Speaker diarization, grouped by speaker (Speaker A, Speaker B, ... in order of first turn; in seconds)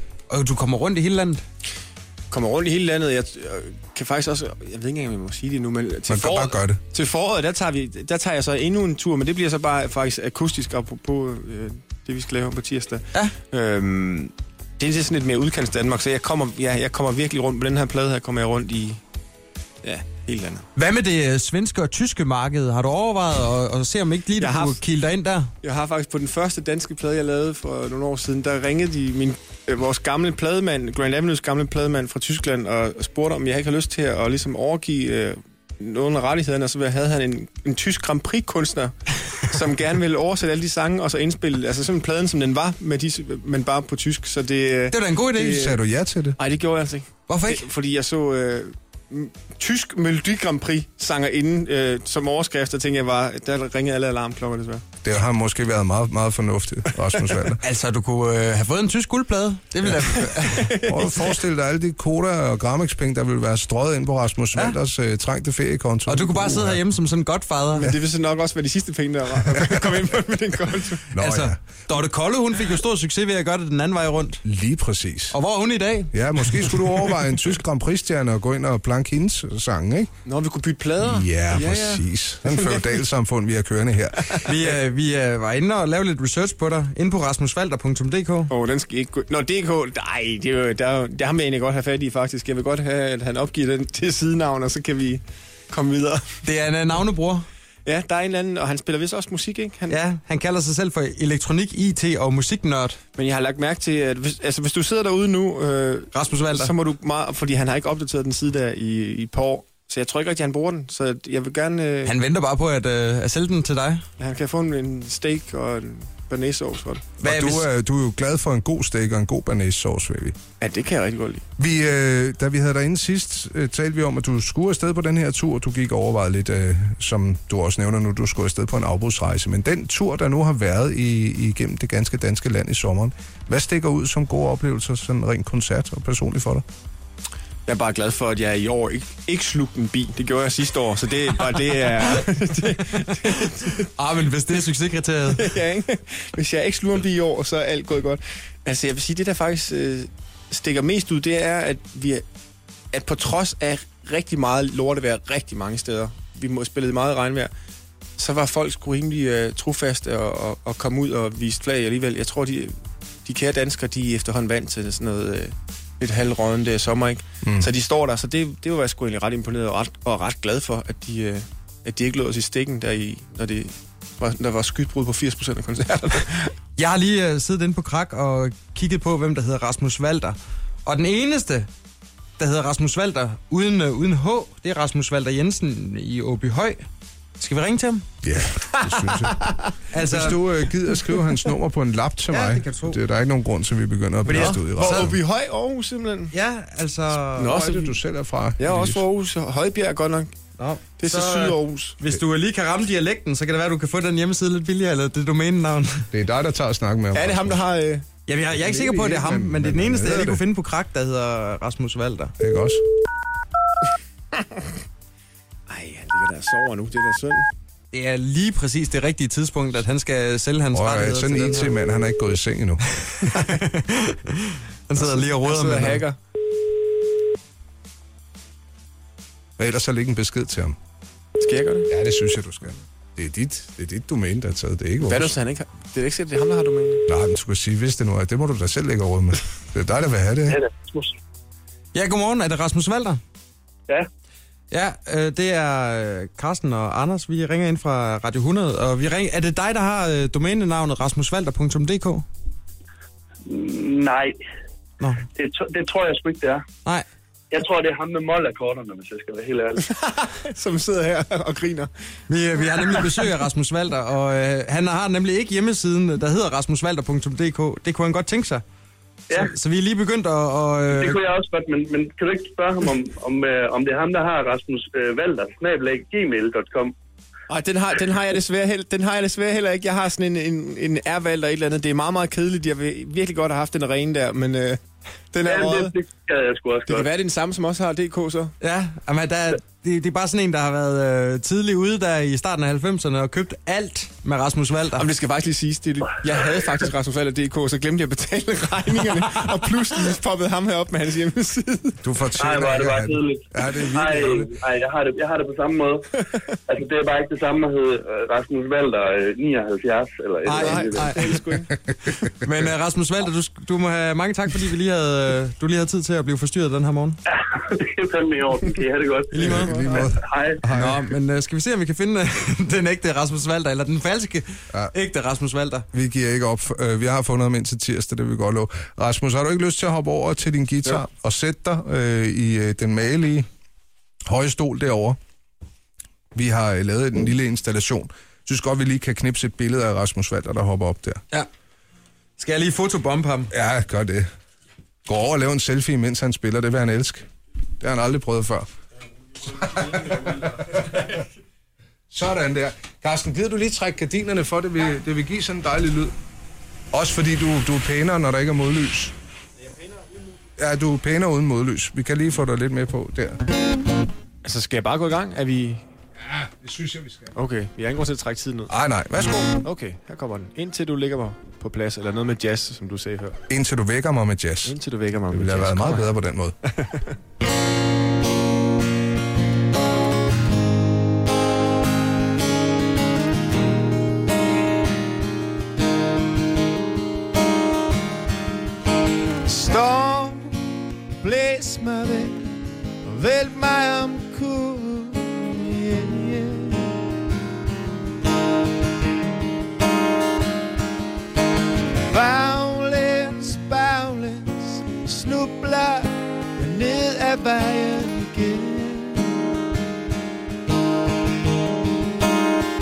Speaker A: 0.3-1.4, 20.8-25.5, 44.9-45.7, 47.3-47.7, 57.6-60.8, 66.1-67.9, 71.2-74.4, 75.3-76.9, 84.5-88.5, 96.4-97.5, 99.9-103.0, 106.1-106.7, 112.0-114.0, 117.2-117.7, 143.2-145.5, 176.8-181.7, 182.4-186.8, 187.4-188.1, 189.9-190.4, 192.3-193.0, 194.3-195.1, 196.3-197.6, 200.6-206.1, 208.3-212.3, 217.9-221.7, 223.1-226.0, 241.9-243.2, 244.7-252.3, 255.0-255.3, 262.3-268.6, 269.3-271.2, 288.6-295.1, 310.4-311.2, 312.4-317.2, 319.3-319.9, 320.7-325.9, 342.4-343.5
Speaker B: 2.3-19.0, 19.8-20.6, 24.4-24.8, 25.6-38.9, 39.4-45.7, 46.4-54.8, 60.5-61.4, 67.8-71.1, 80.3-83.0, 88.5-96.3, 97.8-100.0, 103.2-112.2, 114.2-117.1, 120.6-121.4, 137.7-143.9, 145.3-152.2, 152.9-157.5, 158.2-162.7, 163.3-176.5, 188.8-189.7, 194.3-196.3, 197.4-198.0, 198.6-200.3, 201.0-202.2, 207.1-208.1, 215.7-217.5, 225.0-226.2, 231.4-231.9, 235.0-237.0, 259.9-261.9, 262.7-263.1, 277.5-284.8, 285.3-286.0, 286.9-288.5, 295.0-302.0, 310.5-311.7, 364.4-365.8, 367.3-368.8, 369.6-373.4, 374.6-376.1, 376.8-377.1, 389.5-397.1, 402.0-409.6
Speaker C: 6.1-6.8, 45.5-46.4, 55.0-57.6, 60.9-66.8, 71.1-71.6, 74.4-75.3, 76.1-80.1, 81.0-84.4, 117.2-120.3, 121.6-136.6, 167.4-167.7, 188.2-189.4, 190.0-195.2, 197.4-199.0, 206.1-207.6, 208.5-210.4, 212.4-212.8, 220.7-222.8, 229.6-230.8, 231.9-235.3, 237.1-240.6, 302.0-304.5, 319.4-321.0, 325.9-333.5, 334.3-335.2, 336.3-341.2, 343.5-344.2, 345.1-347.2, 347.8-348.7, 349.4-351.2, 352.1-356.1, 356.9-359.1, 360.6-363.4, 366.2-367.3, 368.7-369.6, 373.5-374.8, 375.3-376.6
Speaker D: 240.5-241.1, 253.5-254.4, 255.3-256.6, 257.5-259.9, 270.9-276.9, 285.4-287.1, 302.4-306.1, 306.7-311.4, 317.3-320.6